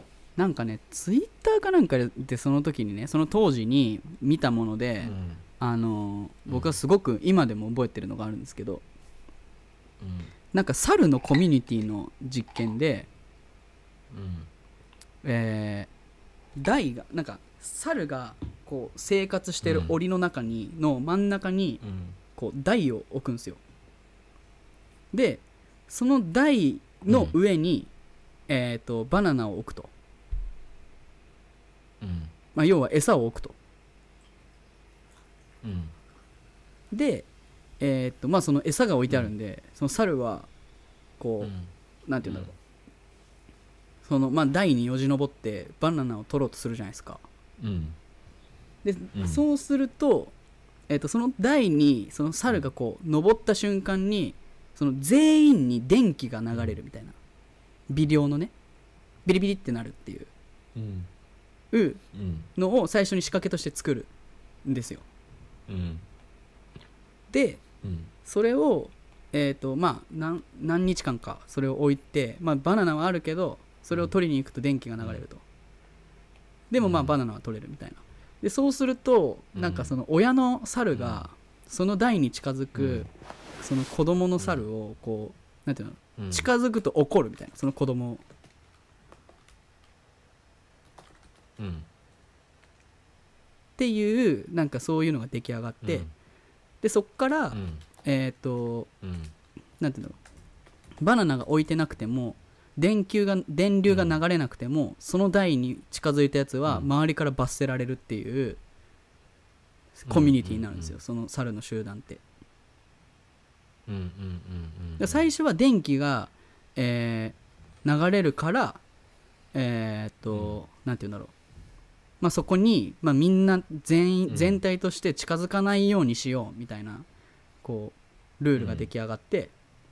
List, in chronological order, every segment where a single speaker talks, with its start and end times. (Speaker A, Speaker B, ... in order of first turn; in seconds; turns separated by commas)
Speaker A: 0.4-8.8, Speaker B: 5.0-5.4, Speaker B: 6.5-6.8, Speaker B: 10.0-10.3, Speaker A: 10.5-13.1, Speaker B: 14.1-14.5, Speaker A: 15.2-15.9, Speaker A: 16.6-21.8, Speaker B: 19.6-20.0, Speaker B: 21.8-22.2, Speaker A: 22.4-23.6, Speaker A: 25.1-27.9, Speaker B: 27.1-27.4, Speaker A: 28.5-29.9, Speaker B: 32.0-32.3, Speaker A: 32.5-33.6, Speaker B: 35.6-35.9, Speaker A: 36.9-37.3, Speaker A: 37.8-40.5, Speaker A: 41.2-41.5, Speaker B: 41.4-41.7, Speaker A: 42.1-42.5, Speaker B: 42.2-42.5, Speaker A: 44.0-47.2, Speaker B: 47.6-48.0, Speaker A: 48.8-50.3, Speaker B: 49.1-49.4, Speaker A: 50.9-57.2, Speaker A: 57.9-58.5, Speaker A: 59.3-60.3, Speaker B: 60.8-61.1, Speaker A: 61.7-62.0, Speaker B: 62.1-62.5, Speaker A: 62.6-64.1, Speaker A: 64.7-65.0, Speaker B: 65.7-66.0, Speaker A: 67.3-67.6, Speaker B: 67.8-68.1, Speaker A: 68.2-75.4, Speaker A: 76.7-88.2, Speaker B: 76.8-77.2, Speaker B: 79.5-79.9, Speaker B: 80.9-81.3, Speaker B: 82.8-83.1, Speaker B: 84.4-84.6, Speaker B: 86.2-86.5, Speaker B: 91.6-91.9, Speaker A: 93.8-96.1, Speaker B: 95.8-96.1, Speaker A: 96.8-98.9, Speaker B: 97.5-97.8, Speaker B: 99.0-99.3, Speaker A: 99.8-100.2, Speaker A: 101.0-108.6, Speaker B: 103.9-104.2, Speaker A: 110.0-112.2, Speaker B: 110.1-111.0, Speaker B: 113.9-115.3, Speaker A: 115.0-118.8, Speaker A: 119.5-121.3, Speaker B: 120.3-120.6, Speaker A: 122.2-127.1, Speaker B: 124.3-124.6, Speaker A: 127.6-129.5, Speaker B: 128.6-128.9